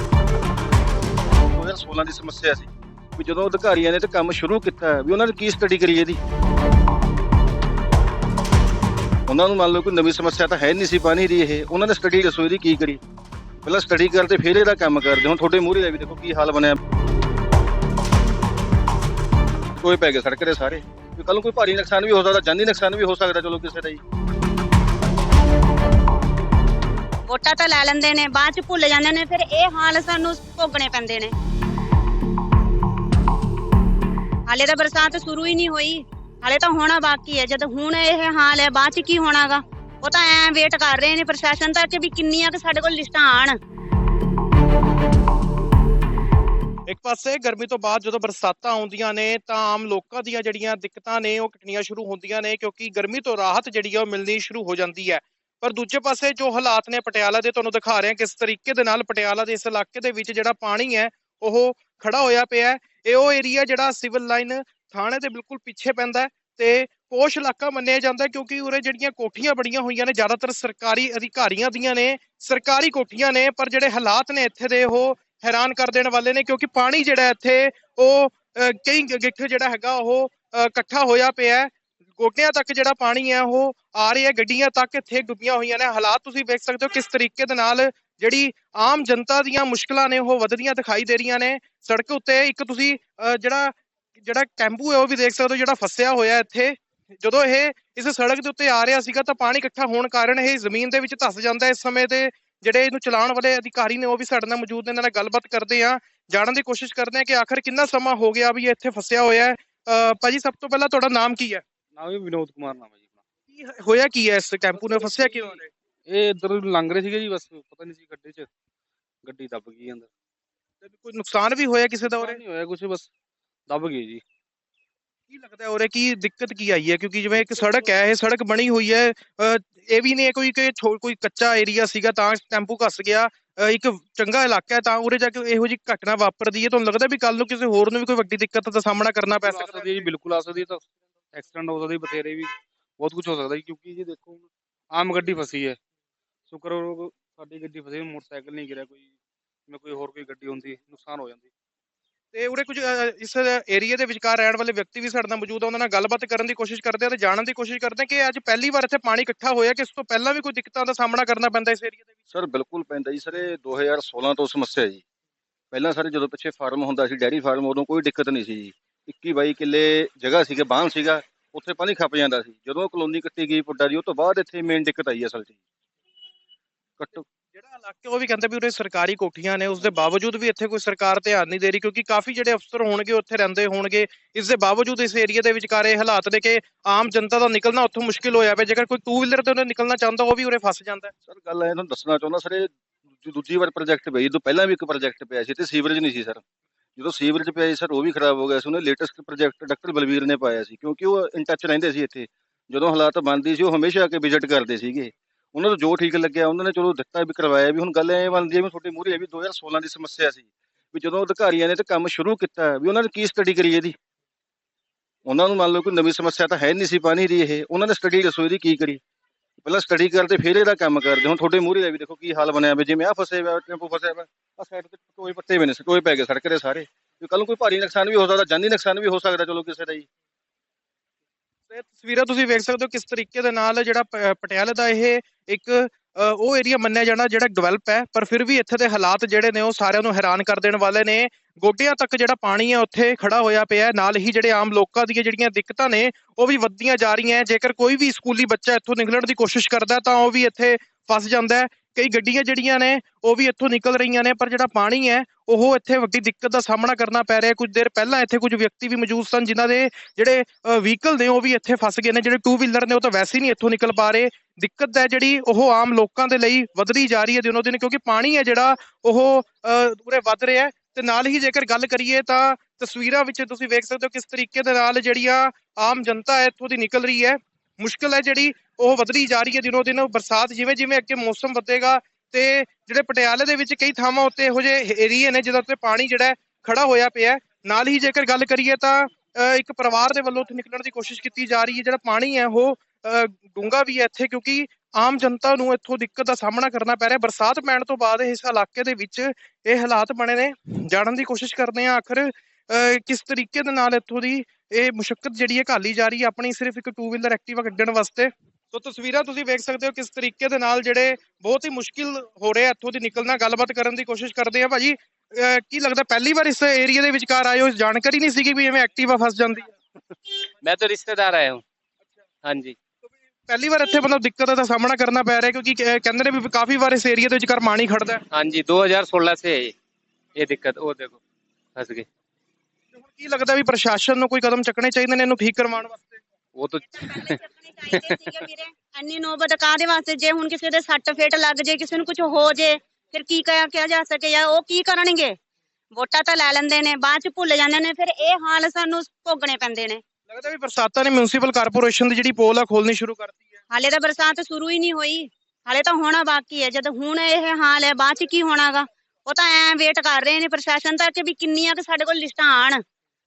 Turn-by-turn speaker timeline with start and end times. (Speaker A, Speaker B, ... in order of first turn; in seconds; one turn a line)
Speaker A: 1.5-6.2
Speaker A: 9.3-13.0
Speaker A: 13.6-16.8
Speaker A: 19.8-24.0
Speaker B: 27.3-31.3
Speaker B: 34.5-43.6
Speaker C: 46.9-111.6
Speaker D: 112.0-113.2
Speaker C: 113.5-115.7
Speaker D: 116.1-118.5
Speaker D: 119.2-120.1
Speaker C: 120.8-122.4
Speaker D: 122.0-123.1
Speaker D: 123.7-124.2
Speaker C: 125.3-140.1
Speaker D: 139.4-145.8
Speaker D: 146.5-149.1
Speaker D: 149.7-151.5
Speaker C: 152.3-162.1
Speaker A: 162.3-165.0
Speaker A: 165.7-175.6
Speaker A: 177.0-177.2
Speaker C: 177.5-191.1
Speaker A: 191.3-192.7
Speaker A: 193.2-196.4
Speaker A: 197.0-213.9
Speaker A: 215.3-219.0
Speaker A: 219.6-230.1
Speaker C: 231.7-319.7
Speaker E: 320.6-321.6
Speaker E: 322.4-322.8
Speaker C: 323.5-328.2
Speaker E: 328.3-329.8
Speaker E: 330.4-331.2
Speaker E: 331.8-332.1
Speaker C: 332.9-336.2
Speaker E: 336.6-337.4
Speaker B: 336.9-345.3
Speaker E: 337.9-338.4
Speaker B: 345.9-350.0
Speaker C: 350.3-353.5
Speaker B: 353.7-362.8